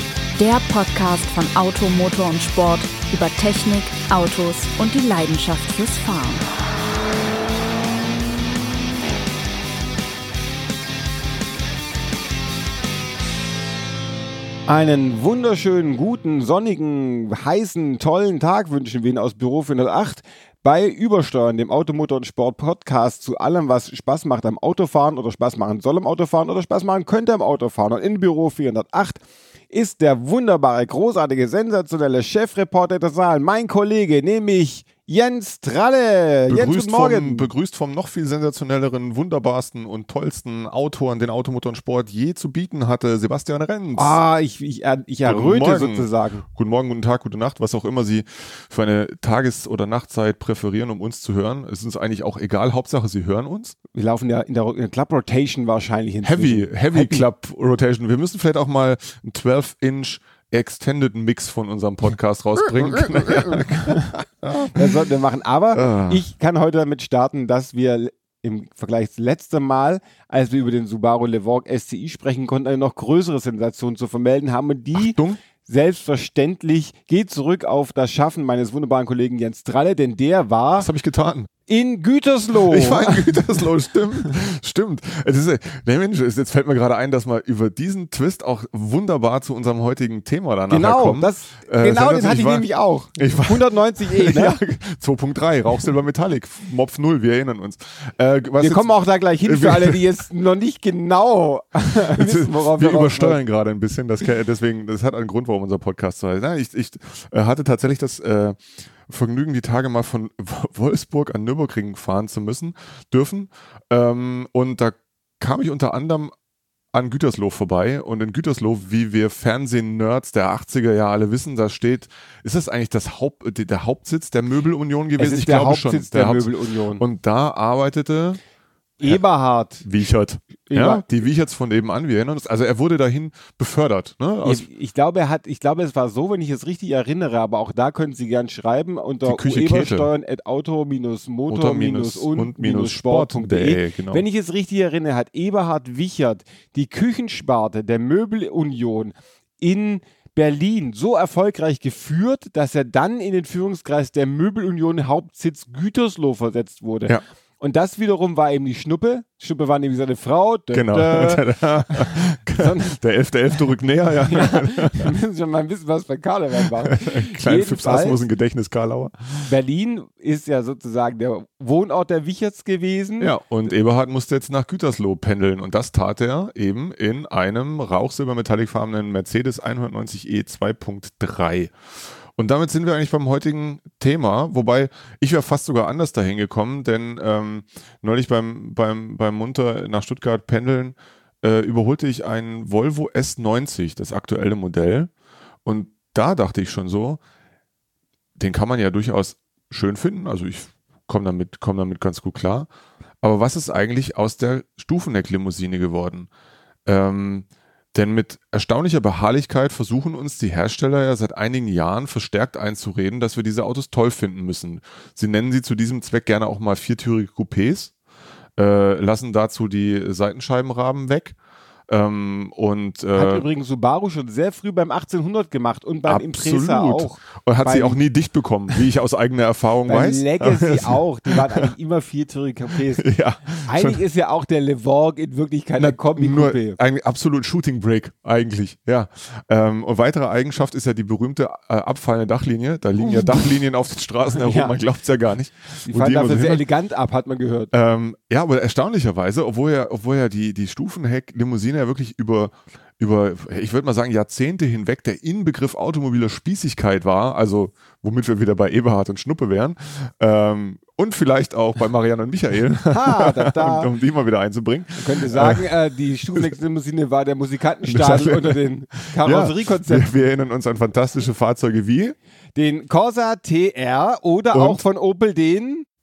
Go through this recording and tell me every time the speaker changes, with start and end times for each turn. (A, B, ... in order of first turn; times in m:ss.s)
0:00.4-0:06.4 A
0:14.7-0:37.5 B
0:36.5-0:44.2 C
0:44.0-0:46.4 B
0:45.2-0:53.8 C
0:53.9-0:57.2 B
0:56.2-1:05.0 C
1:02.9-1:20.9 B
1:05.7-1:06.2 C
1:15.0-1:15.4 C
1:20.8-1:21.5 C
1:21.7-1:23.7 B
1:22.6-1:38.9 C
1:30.7-1:34.6 B
1:38.6-1:43.4 B
1:39.4-1:40.1 C
1:42.1-1:56.3 C
1:56.9-2:08.4 C
2:05.2-2:07.0 B
2:09.0-2:09.8 B
2:09.8-2:14.7 C
2:10.7-2:11.1 B
2:14.4-2:43.0 B
2:19.2-2:20.1 C
2:21.5-2:24.2 C
2:40.7-2:45.1 C
2:44.2-2:48.3 B
2:46.9-2:49.5 C
2:49.4-2:53.4 B
2:53.2-3:01.8 C
3:02.4-3:15.1 C
3:15.6-3:17.2 C
3:18.4-3:22.7 C
3:23.2-3:26.3 C
3:26.9-3:37.9 C
3:38.6-3:41.4 C
3:41.9-3:43.5 C
3:43.2-3:48.0 B
3:46.1-3:51.7 C
3:49.9-3:53.1 B
3:53.0-3:54.0 C
3:53.7-3:56.8 B
3:55.8-4:06.6 C
4:03.0-4:03.6 B
4:04.3-4:04.8 B
4:05.8-4:07.7 B
4:07.7-4:25.8 C
4:22.9-4:23.9 B
4:25.0-4:30.3 B
4:27.8-4:32.2 C
4:32.6-4:35.9 B
4:34.5-4:34.8 C